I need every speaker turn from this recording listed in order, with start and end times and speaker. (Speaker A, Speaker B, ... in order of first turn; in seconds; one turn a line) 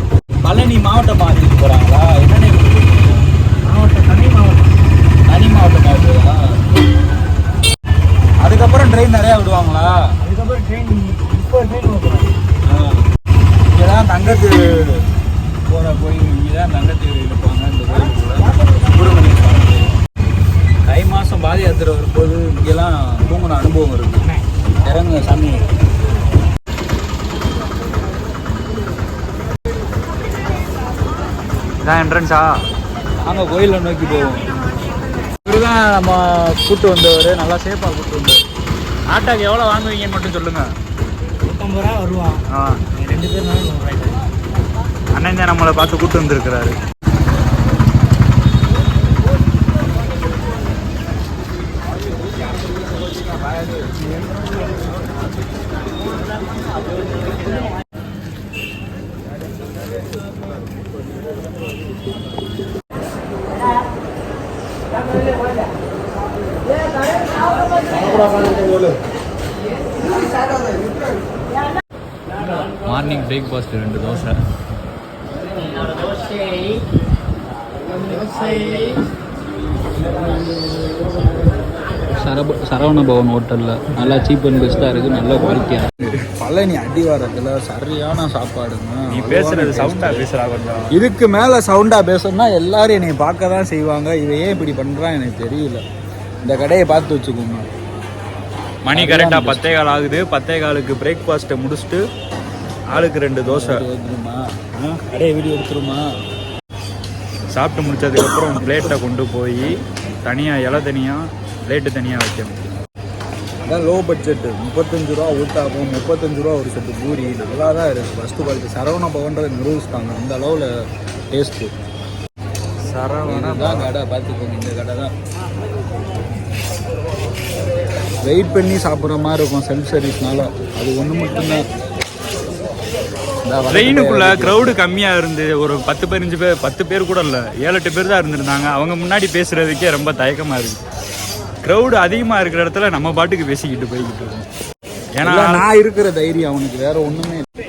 Speaker A: 0.4-3.2
Speaker B: 3.7-4.7
Speaker A: 5.3-6.4
Speaker A: 8.4-9.9
Speaker B: 10.2-12.4
Speaker A: 12.7-13.1
Speaker A: 13.7-15.0
Speaker A: 15.7-19.9
Speaker A: 20.9-24.2
Speaker A: 24.8-25.7
Speaker C: 31.8-32.5
Speaker A: 33.2-34.5
Speaker A: 35.5-38.4
Speaker C: 39.1-40.7
Speaker B: 41.4-42.4
Speaker C: 42.5-42.8
Speaker B: 42.9-44.2
Speaker C: 45.1-46.8
Speaker A: 52.6-54.1
Speaker C: 72.8-74.4
Speaker A: 82.2-90.3
Speaker C: 89.1-90.9
Speaker A: 90.9-95.8
Speaker A: 96.4-97.7
Speaker C: 98.8-102.0
Speaker A: 99.0-99.6
Speaker C: 102.9-103.8
Speaker A: 103.4-106.1
Speaker C: 107.5-112.8
Speaker A: 113.7-120.7
Speaker A: 121.3-121.7
Speaker C: 122.9-123.9
Speaker A: 123.3-125.1
Speaker A: 128.2-131.7
Speaker A: 133.5-134.8
Speaker C: 133.7-140.8
Speaker C: 141.6-144.5
Speaker C: 145.2-145.7
Speaker A: 145.2-147.5